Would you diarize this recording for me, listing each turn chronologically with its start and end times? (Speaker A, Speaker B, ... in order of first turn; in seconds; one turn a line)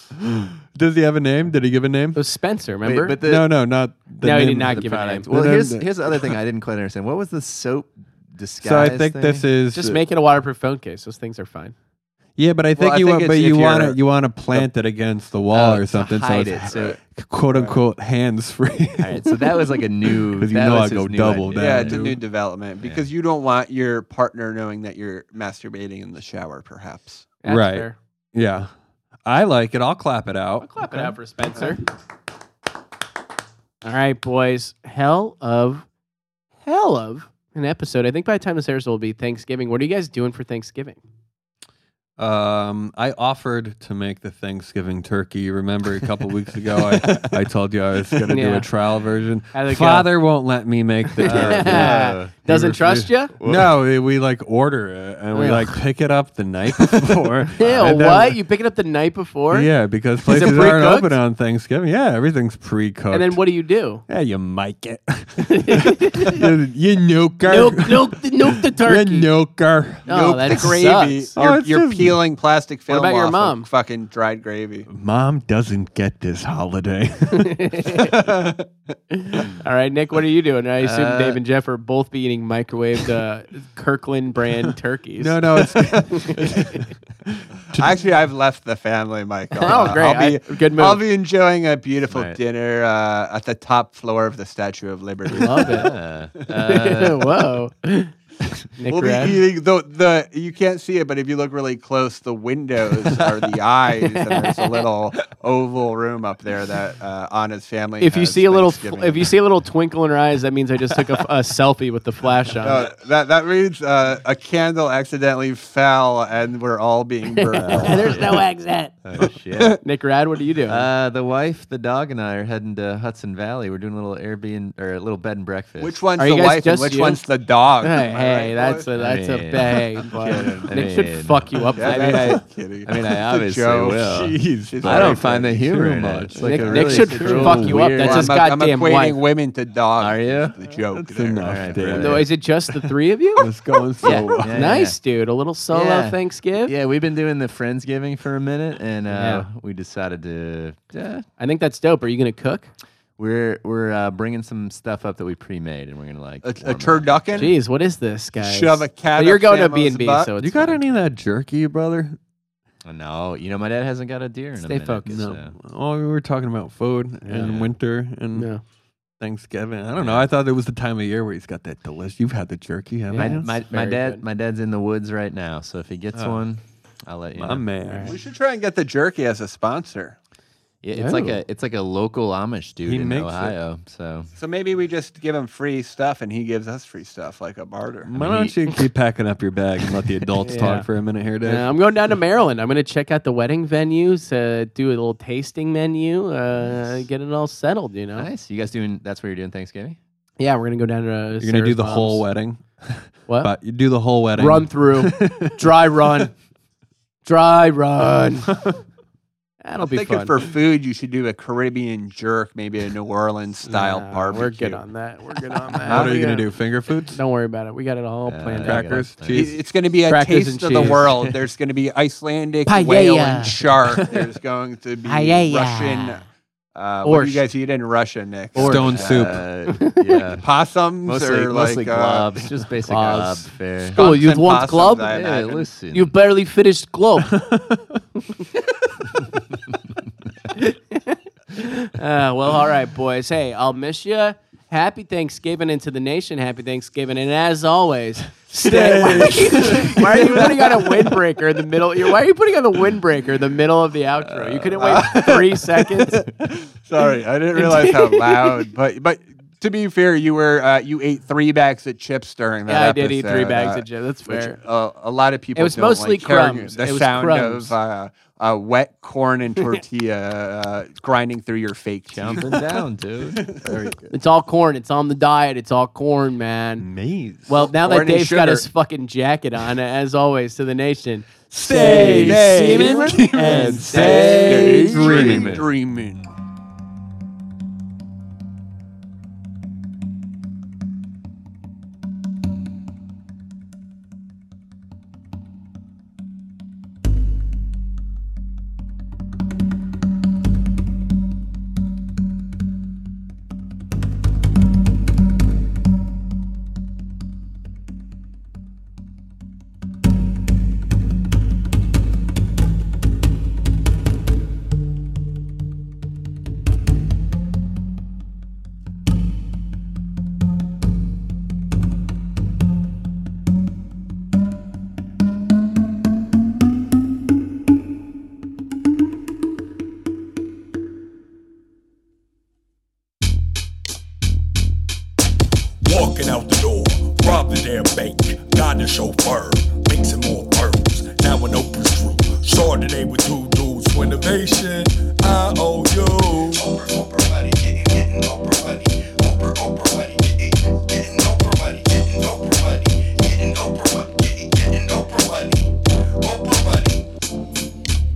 Speaker A: 0.2-2.2
Speaker B: 2.1-3.2
Speaker C: 2.9-3.5
Speaker A: 3.2-6.4
Speaker B: 4.2-5.3
Speaker C: 4.7-9.4
Speaker A: 8.6-10.0
Speaker B: 9.7-11.8
Speaker A: 12.4-19.3
Speaker D: 12.8-14.0
Speaker C: 15.5-17.0
Speaker D: 16.6-17.0
Speaker D: 17.5-17.8
Speaker C: 19.0-22.2
Speaker A: 20.4-22.2
Speaker D: 21.6-27.3
Speaker B: 27.4-28.0
Speaker A: 27.5-28.7
Speaker A: 29.3-31.1
Speaker B: 30.6-31.8
Speaker B: 33.8-35.9
Speaker B: 36.6-41.0
Speaker A: 42.2-58.4
Speaker C: 46.7-47.3
Speaker B: 48.3-48.7
Speaker B: 49.5-50.1
Speaker B: 51.2-53.3
Speaker C: 51.2-52.3
Speaker C: 53.4-53.7
Speaker B: 55.3-55.8
Speaker B: 57.6-59.7
Speaker C: 57.6-57.9
Speaker A: 59.5-63.4
Speaker B: 60.2-61.2
Speaker B: 63.1-64.0
Speaker A: 64.1-70.6
Speaker B: 65.4-66.4
Speaker B: 67.5-69.3
Speaker B: 70.1-71.3
Speaker D: 70.1-74.9
Speaker A: 71.4-72.2
Speaker B: 72.9-73.7
Speaker A: 74.9-77.5
Speaker B: 77.3-78.1
Speaker D: 78.1-78.7
Speaker B: 79.1-86.8
Speaker C: 80.8-81.4
Speaker A: 85.2-87.9
Speaker D: 87.7-95.9
Speaker B: 89.6-91.0
Speaker C: 92.1-92.4
Speaker B: 95.3-95.9
Speaker C: 95.7-97.3
Speaker B: 96.6-98.1
Speaker B: 98.8-99.4
Speaker D: 98.9-109.3
Speaker B: 108.0-112.9
Speaker D: 112.6-118.2
Speaker B: 117.3-118.9
Speaker C: 117.6-118.4
Speaker C: 119.0-119.8
Speaker B: 119.8-120.9
Speaker C: 120.7-126.0
Speaker D: 125.8-128.9
Speaker B: 126.2-127.2
Speaker B: 127.8-132.4
Speaker C: 129.0-129.8
Speaker D: 130.1-130.8
Speaker C: 130.5-132.3
Speaker D: 131.8-135.7
Speaker C: 132.9-138.3
Speaker A: 134.0-137.8
Speaker B: 136.3-139.2
Speaker D: 136.7-136.9
Speaker D: 137.9-141.8
Speaker C: 140.0-140.6
Speaker A: 140.9-144.5
Speaker C: 141.4-142.3
Speaker B: 142.0-146.7
Speaker C: 144.0-144.9
Speaker C: 145.7-151.2
Speaker B: 149.1-149.5
Speaker B: 151.4-152.7
Speaker C: 153.2-157.6
Speaker D: 156.4-157.5
Speaker B: 157.4-160.8
Speaker D: 158.4-160.3
Speaker A: 160.4-162.2
Speaker C: 162.8-165.6
Speaker B: 164.6-165.2
Speaker A: 165.1-168.5
Speaker B: 167.2-167.5
Speaker C: 167.3-167.7
Speaker B: 168.3-168.6
Speaker A: 169.2-173.5
Speaker C: 170.0-170.3
Speaker B: 173.1-174.2
Speaker C: 173.2-177.7
Speaker A: 176.1-176.4
Speaker A: 177.4-178.2
Speaker B: 177.9-178.1
Speaker D: 178.1-180.2
Speaker C: 180.8-184.3
Speaker B: 180.9-181.4
Speaker A: 182.9-183.6
Speaker D: 184.4-188.1
Speaker A: 188.1-191.7
Speaker C: 188.1-188.5
Speaker B: 190.4-190.9
Speaker B: 191.4-198.3
Speaker C: 198.2-200.0
Speaker B: 200.4-202.2
Speaker A: 201.4-205.6
Speaker B: 204.4-206.3
Speaker B: 207.2-208.5
Speaker B: 209.6-210.4
Speaker D: 209.8-214.8
Speaker B: 213.7-216.5
Speaker A: 215.9-217.2
Speaker B: 217.1-218.9
Speaker C: 218.3-219.5
Speaker A: 218.6-219.5
Speaker D: 219.3-226.2
Speaker B: 220.1-221.1
Speaker C: 221.0-221.3
Speaker B: 222.7-224.2
Speaker B: 225.1-226.1
Speaker D: 226.8-229.3
Speaker B: 227.0-227.4
Speaker A: 228.6-229.4
Speaker C: 228.6-230.4
Speaker B: 229.7-230.2
Speaker D: 230.4-232.5
Speaker C: 231.0-234.0
Speaker B: 232.9-237.4
Speaker D: 233.8-235.7
Speaker C: 235.1-236.1
Speaker A: 237.3-237.8
Speaker B: 238.3-238.6
Speaker B: 240.5-256.2
Speaker A: 248.6-250.8
Speaker D: 254.8-272.6
Speaker B: 257.6-258.6
Speaker B: 262.7-264.6
Speaker B: 265.6-267.8
Speaker C: 272.1-273.7
Speaker A: 273.6-274.1
Speaker B: 274.1-276.9
Speaker A: 276.8-277.6
Speaker B: 277.5-284.5
Speaker D: 277.6-278.7
Speaker A: 281.6-285.6
Speaker D: 281.7-286.3
Speaker C: 283.6-285.7
Speaker E: 335.8-355.6
Speaker E: 356.2-356.8